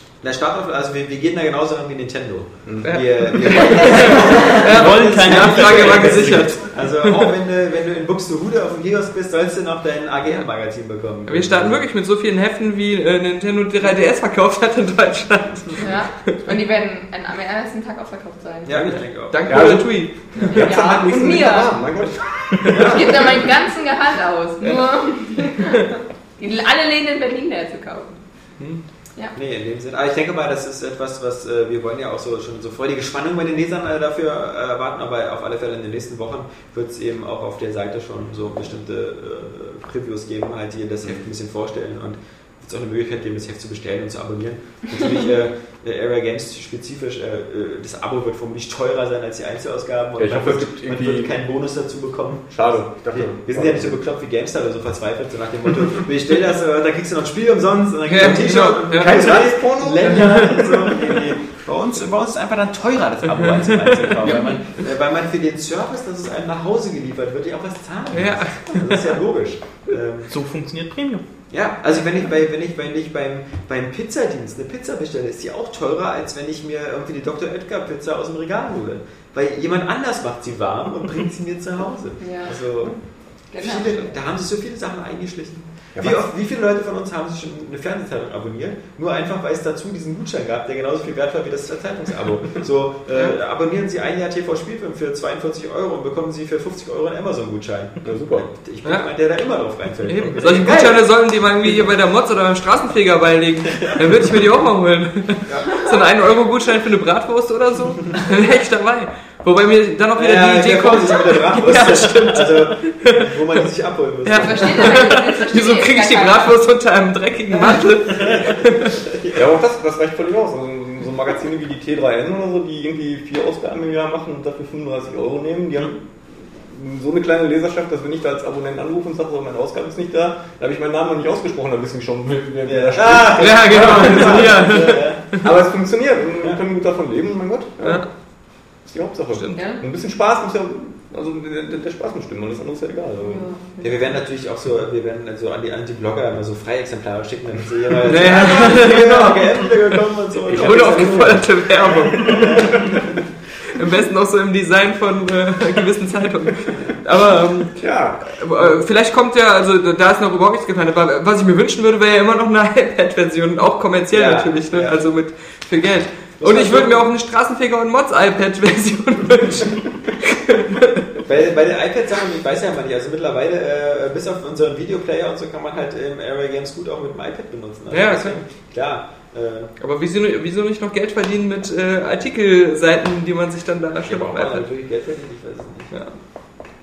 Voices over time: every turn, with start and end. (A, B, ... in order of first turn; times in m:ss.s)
0:00.2-0:11.8 A
0:02.6-0:02.9 B
0:02.8-0:07.3 C
0:04.1-0:06.5 D
0:11.2-0:16.4 C
0:15.8-0:18.8 E
0:18.6-0:19.7 A
0:18.7-0:20.6 C
0:19.4-0:23.4 B
0:20.4-0:21.4 A
0:20.4-0:21.7 E
0:22.7-0:23.2 A
0:22.9-0:28.2 E
0:29.3-1:10.3 A
0:50.2-0:51.4 B
0:52.5-0:54.0 B
0:58.1-1:01.1 C
0:58.9-1:00.5 B
1:08.1-1:09.1 C
1:10.3-1:11.2 D
1:11.5-1:41.0 A
1:22.2-1:22.6 E
1:23.5-1:24.1 E
1:25.9-1:26.2 B
1:38.0-1:38.5 B
1:38.8-1:39.1 C
1:40.1-1:53.4 C
1:45.5-1:45.8 A
1:50.2-1:55.0 A
1:54.2-1:58.9 C
1:54.4-1:56.6 E
1:57.5-1:59.4 A
1:59.3-2:18.1 B
2:12.6-2:15.4 A
2:13.4-2:15.4 C
2:17.8-2:18.1 C
2:18.8-2:23.5 B
2:19.5-2:19.8 E
2:23.2-2:24.2 E
2:23.8-2:33.1 A
2:28.0-2:30.0 C
2:30.5-2:33.0 B
2:30.5-2:32.5 C
2:33.7-2:51.2 C
2:37.8-2:38.2 B
2:44.1-2:45.0 A
2:46.4-2:47.0 A
2:51.2-2:59.7 A
2:57.9-2:58.4 C
2:59.8-3:04.7 C
3:04.0-3:05.9 A